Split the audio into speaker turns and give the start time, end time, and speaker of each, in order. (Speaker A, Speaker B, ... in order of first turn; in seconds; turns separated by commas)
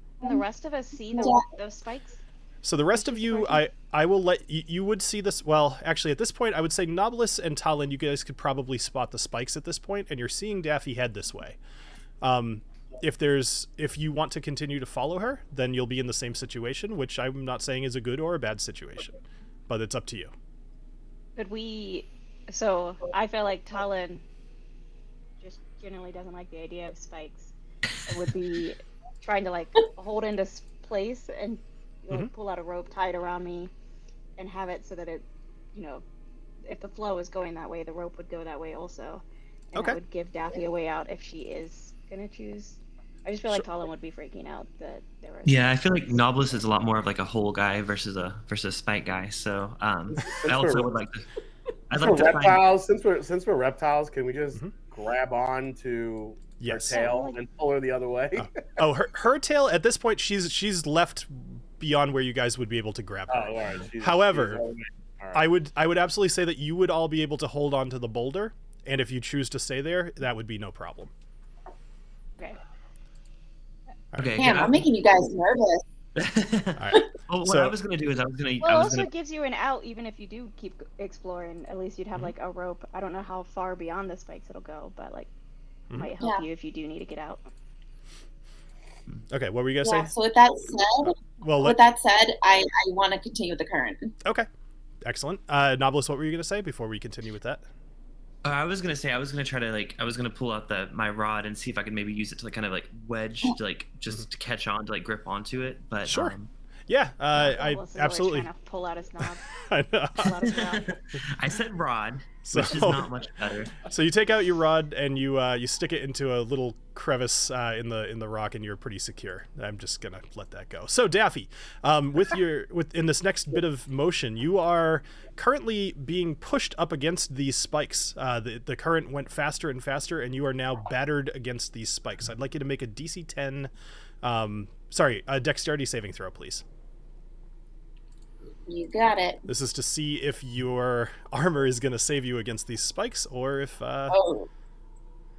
Speaker A: 0.2-2.2, Speaker B: 1.1-1.4, Speaker C: 2.6-11.6, Speaker A: 2.9-3.6, Speaker C: 12.2-20.3, Speaker A: 21.4-24.2, Speaker A: 25.4-27.5, Speaker A: 28.1-33.7, Speaker A: 34.4-36.0, Speaker A: 36.6-45.6, Speaker D: 45.5-51.2, Speaker E: 50.3-50.9, Speaker D: 51.9-52.7, Speaker E: 52.0-58.5, Speaker C: 56.6-57.1, Speaker A: 56.9-57.4, Speaker C: 58.3-64.6, Speaker E: 63.3-65.5, Speaker C: 65.3-71.1, Speaker C: 74.1-74.5, Speaker D: 74.2-74.8, Speaker B: 74.3-75.8, Speaker D: 76.2-79.1, Speaker C: 76.8-77.7, Speaker A: 78.6-85.3, Speaker A: 85.9-87.5, Speaker B: 86.2-86.5, Speaker C: 89.3-90.1, Speaker B: 89.8-94.1, Speaker C: 91.0-91.8, Speaker C: 95.0-97.6, Speaker D: 98.4-106.5, Speaker C: 106.0-106.3, Speaker C: 106.9-108.5, Speaker A: 107.3-109.5, Speaker C: 109.5-110.5, Speaker A: 110.2-110.9, Speaker D: 110.5-113.8, Speaker C: 112.4-113.1, Speaker C: 113.8-133.7, Speaker C: 134.2-136.6, Speaker B: 138.7-139.4, Speaker C: 139.5-144.2, Speaker B: 144.1-144.5